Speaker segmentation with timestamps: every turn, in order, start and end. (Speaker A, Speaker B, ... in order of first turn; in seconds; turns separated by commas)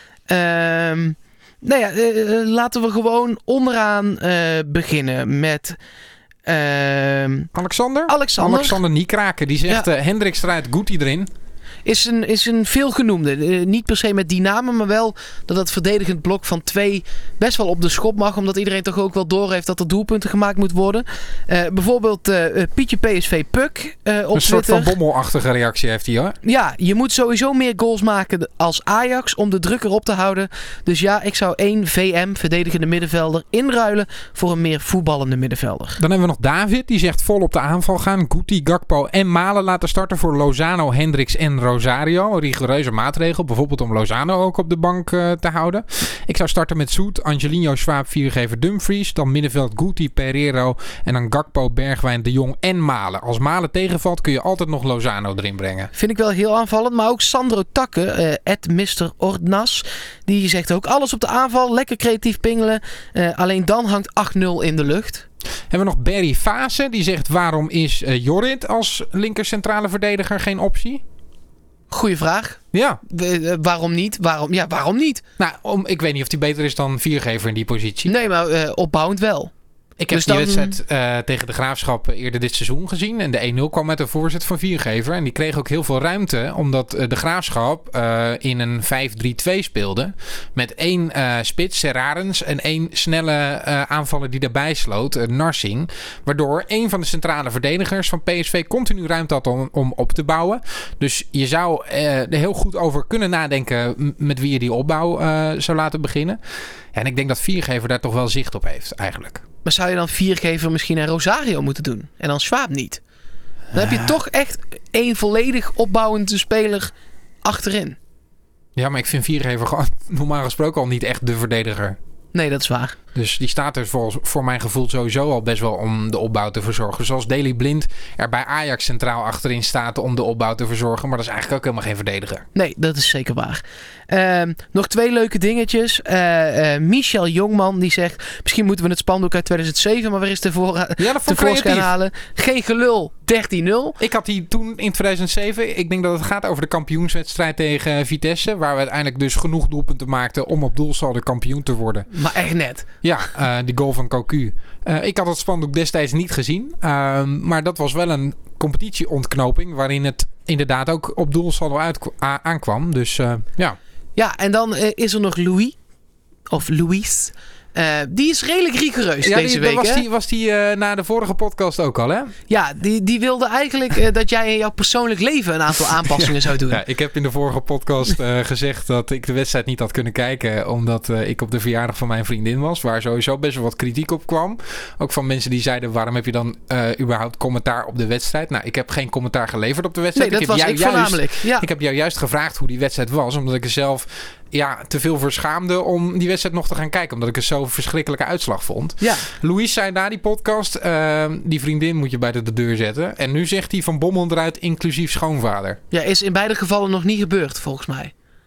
Speaker A: 0.3-5.8, Speaker A: 6.5-7.5, Speaker B: 7.5-11.3, Speaker A: 8.1-8.8, Speaker A: 11.8-24.9, Speaker B: 24.4-26.4, Speaker A: 26.4-36.0, Speaker B: 36.0-55.9, Speaker A: 56.0-65.2, Speaker B: 65.7-71.0, Speaker A: 71.9-75.2, Speaker B: 72.7-73.0, Speaker B: 75.4-78.1, Speaker A: 78.1-79.5, Speaker B: 80.0-106.4, Speaker A: 80.1-80.8, Speaker B: 106.9-109.4, Speaker A: 109.7-113.0, Speaker B: 113.7-114.1, Speaker A: 113.7-118.0, Speaker B: 118.8-122.0, Speaker A: 122.3-123.0, Speaker B: 123.2-132.5, Speaker A: 132.6-144.0, Speaker B: 141.0-141.9, Speaker B: 144.0-152.1, Speaker A: 152.1-152.9, Speaker B: 153.0-163.8, Speaker A: 164.2-165.8, Speaker A: 166.5-170.1, Speaker B: 169.2-172.3, Speaker A: 172.5-176.8, Speaker B: 176.0-205.8, Speaker A: 190.2-191.7, Speaker A: 199.0-199.3, Speaker A: 205.9-208.1